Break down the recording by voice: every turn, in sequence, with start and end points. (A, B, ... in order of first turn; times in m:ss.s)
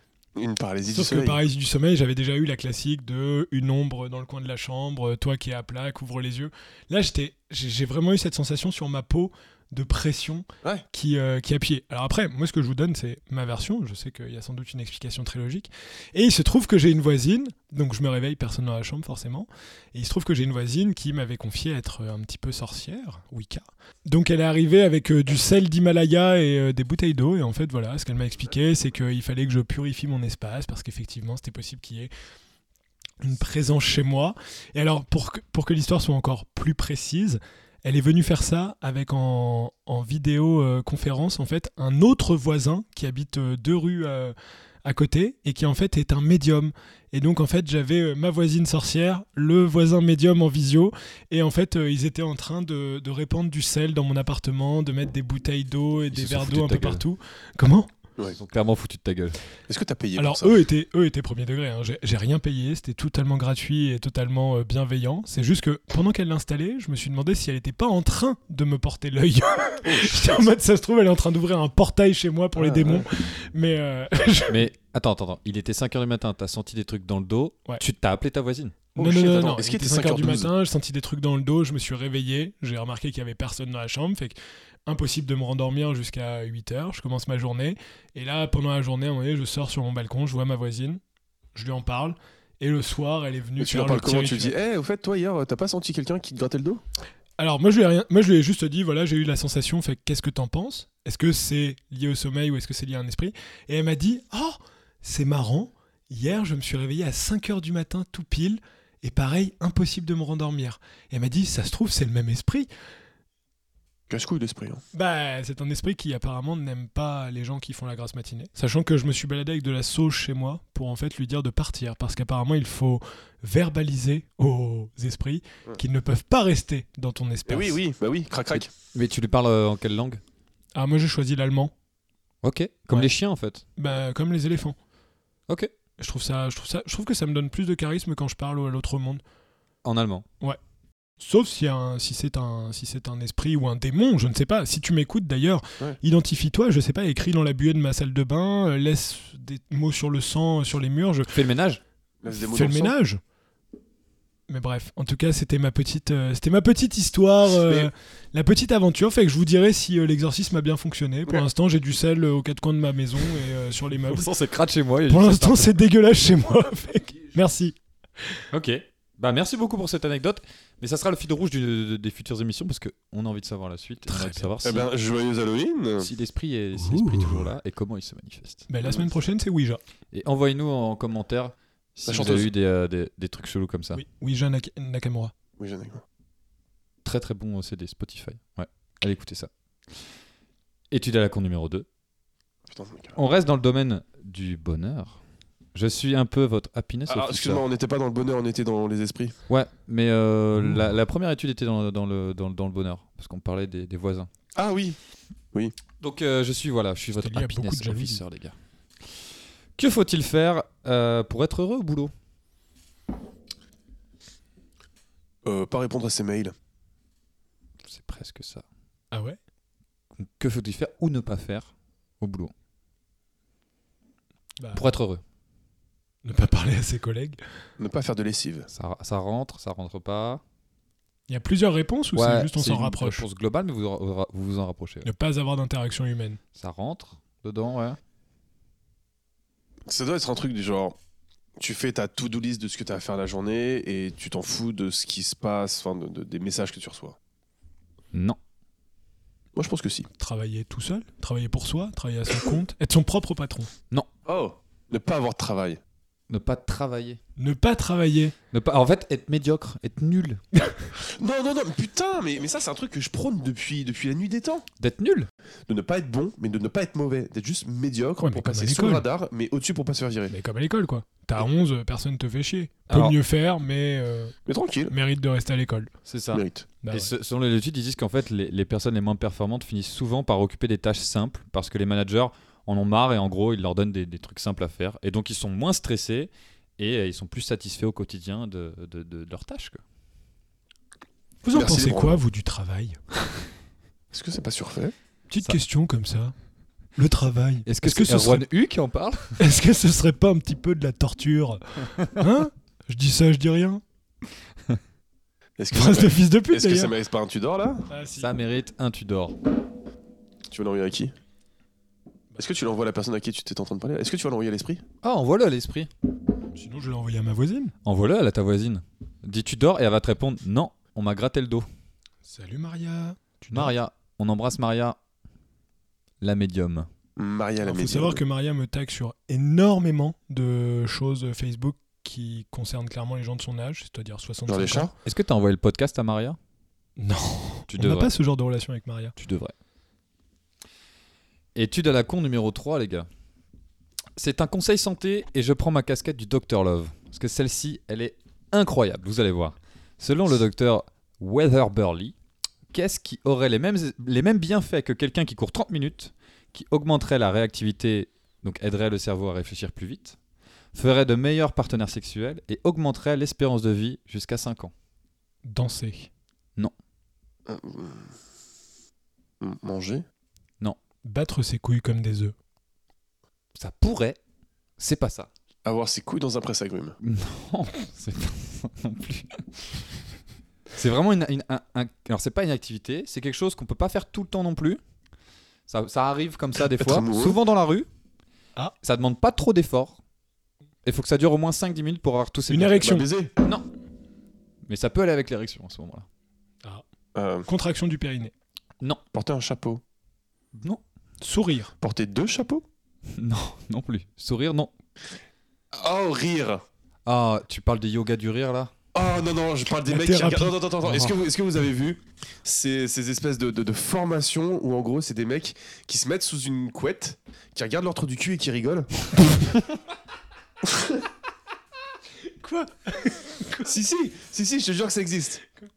0:00.4-0:01.4 A
0:00.9-0:32.1 B
0:33.2-0:57.9 B
0:56.1-0:57.0 C
0:58.3-0:59.4 C
0:59.7-1:00.6 A
1:00.2-1:14.6 B
1:09.8-1:10.5 A
1:12.6-1:13.1 A
1:14.5-1:18.7 C
1:19.0-1:20.5 A
1:19.0-1:31.0 B
1:31.5-1:34.5 B
1:33.6-1:36.8 A
1:37.4-1:52.7 B
1:54.1-1:54.8 A
1:54.9-2:07.8 B
2:07.4-2:08.7 A
2:08.5-2:10.2 C
2:10.7-2:11.7 B
2:12.4-2:13.6 C
2:13.8-2:14.8 B
2:16.0-2:19.2 B
2:19.8-2:20.2 C
2:21.2-2:31.3 B
2:31.3-2:31.8 C
2:32.2-2:32.9 A
2:32.3-2:33.2 B
2:34.5-2:44.3 B
2:37.6-2:37.9 A
2:44.1-2:45.8 C
2:45.1-2:47.8 B
2:48.5-2:54.9 C
2:54.1-2:54.5 B
2:54.6-2:56.1 A
2:56.0-2:58.7 C
2:56.8-2:57.5 B
2:58.7-2:59.8 B
2:58.8-2:59.1 A
3:00.1-3:04.0 C
3:02.1-3:02.5 A
3:03.9-3:05.3 B
3:05.6-3:06.0 A
3:07.0-3:09.5 C
3:10.9-3:11.9 C
3:12.7-3:13.2 A
3:13.2-3:15.2 C
3:15.7-3:17.6 C
3:17.1-3:19.4 A
3:19.5-3:24.3 C
3:24.5-3:25.0 A
3:26.0-3:28.5 C
3:27.1-3:28.2 B
3:29.8-3:32.1 C
3:35.4-3:36.5 A
3:37.8-3:38.6 C
3:39.1-3:39.4 B
3:40.2-3:42.5 C
3:44.6-3:44.8 B
3:44.7-3:45.2 C
3:46.2-3:47.4 B
3:47.8-3:48.7 A
3:48.7-3:50.4 C
3:51.3-3:53.2 B
3:52.1-3:55.1 C
3:55.0-3:56.4 B
3:56.5-3:58.0 C
3:59.9-4:01.0 A
4:01.6-4:07.2 A
4:08.1-4:08.4 C
4:09.5-4:10.1 A
4:10.2-4:13.7 B
4:14.2-4:15.8 A
4:16.3-4:17.2 C
4:17.4-4:18.3 B
4:18.5-4:20.4 C
4:21.0-4:24.6 A
4:24.8-4:25.3 C
4:25.7-4:30.3 A
4:28.2-4:29.0 B
4:30.3-4:34.4 B
4:32.9-4:33.2 C
4:34.4-4:34.9 A
4:34.9-4:35.9 B
4:36.0-4:49.8 C
4:36.3-4:36.7 A
4:36.8-4:37.1 B
4:51.4-4:53.1 B
4:51.5-4:52.2 A
4:54.1-4:54.9 A
4:55.3-4:56.3 B
4:57.0-4:58.4 B
4:57.6-4:59.4 C
4:59.4-5:03.8 B
5:05.6-5:07.9 A
5:05.7-5:06.9 B
5:07.9-5:08.3 B
5:08.2-5:09.4 C
5:10.5-5:11.1 A
5:12.4-5:14.8 A
5:15.0-5:15.9 C
5:16.5-5:17.7 B
5:17.8-5:21.7 C
5:22.2-5:23.7 B
5:23.5-5:25.0 C
5:26.2-5:26.9 C
5:27.2-5:28.2 A
5:27.6-5:34.9 B
5:34.5-5:34.9 A
5:35.0-5:36.4 C
5:37.0-5:39.1 B
5:37.7-5:38.1 C
5:39.2-5:39.5 C
5:41.5-5:43.1 C
5:44.2-5:52.1 C
5:52.7-6:00.2 C
6:00.7-6:04.7 C
6:05.4-6:06.1 B
6:07.5-6:08.1 A
6:09.4-6:10.0 A
6:11.0-6:12.3 B
6:13.6-6:14.2 C
6:14.8-6:15.3 C
6:15.6-6:17.0 A
6:17.0-6:19.6 C
6:20.7-6:24.8 C
6:25.7-6:27.9 C
6:26.6-6:27.4 A
6:28.8-6:30.0 C
6:30.8-6:33.6 C
6:32.5-6:33.1 B
6:32.8-6:33.3 A
6:34.6-6:36.0 C
6:37.1-6:37.5 A
6:37.5-6:38.3 B
6:39.1-6:39.8 A
6:40.5-6:40.8 C
6:41.2-6:41.7 B
6:41.8-6:42.6 A
6:43.2-6:44.7 C
6:45.7-6:46.6 A
6:47.0-6:48.7 C
6:48.9-6:59.1 A
6:49.8-6:50.6 B
6:50.8-6:51.1 C
7:00.6-7:01.0 A
7:02.3-7:03.7 B
7:03.6-7:05.4 A